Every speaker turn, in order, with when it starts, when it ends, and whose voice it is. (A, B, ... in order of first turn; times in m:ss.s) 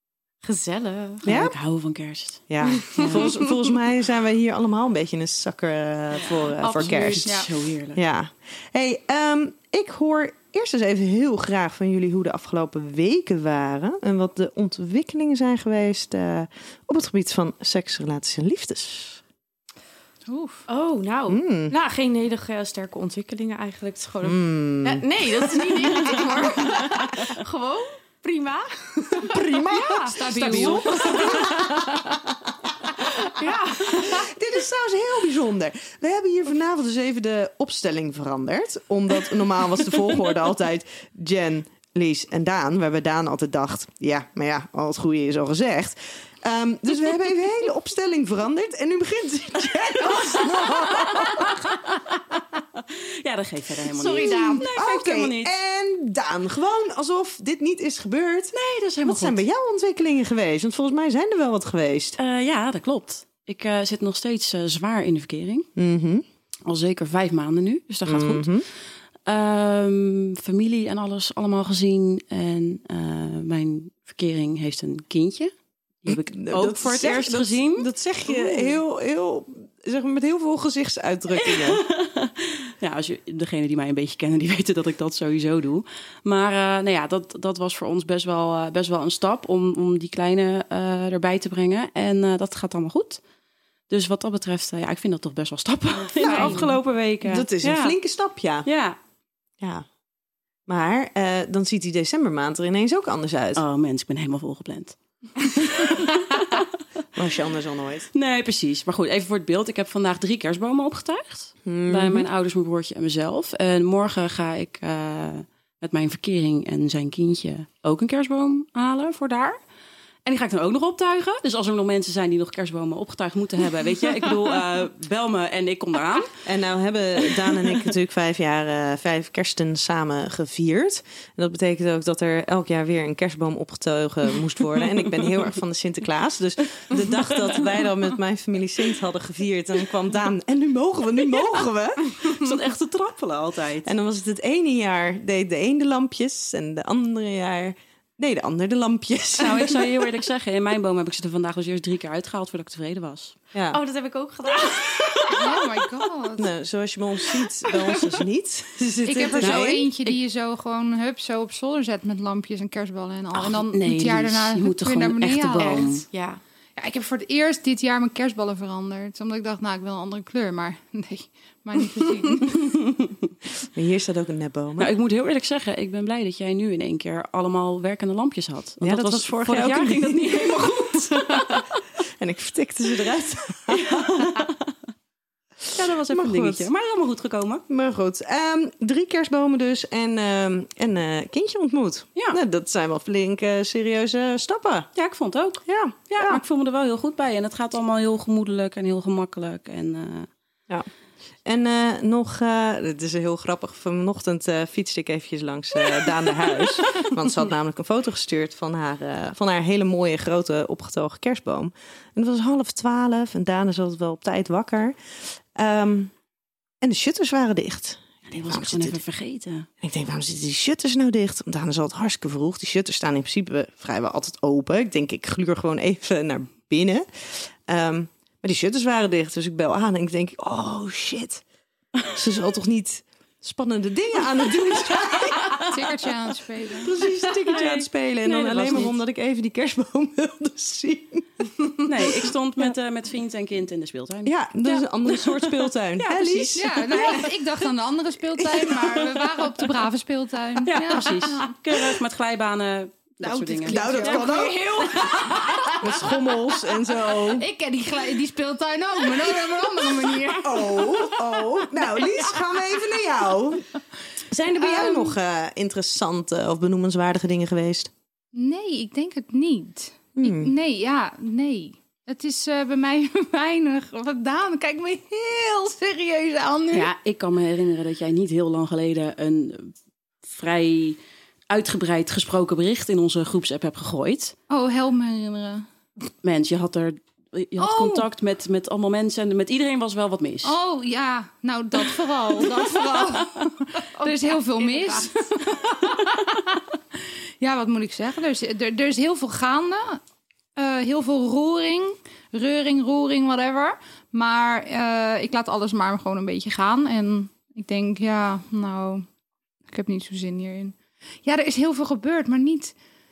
0:00.4-0:01.2 A
0:01.2-0:01.6 B
0:01.2-0:02.4 C
0:02.5-0:07.2 B
0:02.8-0:03.4 A
0:02.9-0:03.2 C
0:06.3-0:07.4 A
0:06.6-0:08.0 C
0:07.9-0:19.2 B
0:20.3-0:20.6 D
0:20.7-0:30.2 A
0:21.3-0:21.7 B
0:24.2-0:26.8 B
0:29.1-0:32.0 B
0:30.0-0:31.2 D
0:30.3-0:31.8 C
0:31.3-0:31.6 A
0:33.1-0:34.3 A
0:33.8-0:51.6 B
0:50.0-0:52.2 C
0:52.8-0:55.5 C
0:53.9-0:54.7 A
0:54.2-1:02.2 B
0:58.5-0:59.4 C
1:02.2-1:05.7 C
1:05.8-1:06.2 B
1:06.6-1:08.5 C
1:08.0-1:08.6 B
1:09.3-1:15.5 C
1:16.0-1:18.7 C
1:16.1-1:21.8 B
1:21.4-1:33.2 C
1:33.9-1:38.0 C
1:36.2-1:38.7 B
1:36.2-1:36.7 A
1:38.6-1:39.0 C
1:39.6-1:39.8 B
1:40.7-1:43.6 B
1:43.6-1:46.6 C
1:47.1-1:48.1 B
1:48.1-1:59.6 C
1:51.6-1:52.3 B
2:00.2-2:06.3 C
2:06.4-2:22.4 B
2:17.0-2:17.7 C
2:22.2-2:23.9 C
2:23.8-2:30.0 B
2:29.4-2:33.4 C
2:33.5-2:33.8 B
2:33.7-2:35.2 A
2:34.6-2:35.2 C
2:35.3-2:36.5 D
2:36.4-2:39.9 B
2:39.0-2:45.8 D
2:39.4-2:40.2 C
2:43.4-2:46.0 C
2:45.6-2:46.4 A
2:46.8-2:52.6 D
2:52.6-2:52.9 C
2:53.7-2:54.9 B
2:54.8-3:01.8 C
2:58.8-3:01.6 B
3:02.2-3:04.5 B
3:03.7-3:04.6 C
3:05.7-3:07.6 C
3:06.1-3:06.7 B
3:07.7-3:14.9 B
3:15.0-3:20.3 C
3:15.6-3:16.4 B
3:21.4-3:35.0 B
3:35.5-3:36.1 B
3:36.8-3:39.0 B
3:38.3-3:39.7 C
3:39.8-3:51.4 B
3:52.1-3:55.6 B
3:55.6-3:56.9 D
3:56.8-4:01.2 B
3:57.4-3:58.9 C
4:01.8-4:07.2 C
4:02.0-4:02.7 B
4:04.2-4:07.3 B
4:06.5-4:11.5 D
4:08.3-4:09.1 B
4:10.6-4:14.3 C
4:13.3-4:15.7 D
4:13.3-4:14.7 B
4:15.7-4:17.4 B
4:17.3-4:21.2 D
4:20.4-4:23.6 B
4:24.3-4:27.9 B
4:28.3-4:36.9 D
4:30.2-4:30.5 B
4:36.7-4:41.0 C
4:41.5-4:44.3 C
4:44.5-4:45.6 D
4:46.2-4:50.6 C
4:47.6-4:48.0 D
4:50.4-4:56.6 D
4:54.6-4:55.0 A
4:57.4-5:00.0 D
5:00.5-5:09.0 D
5:09.7-5:12.7 D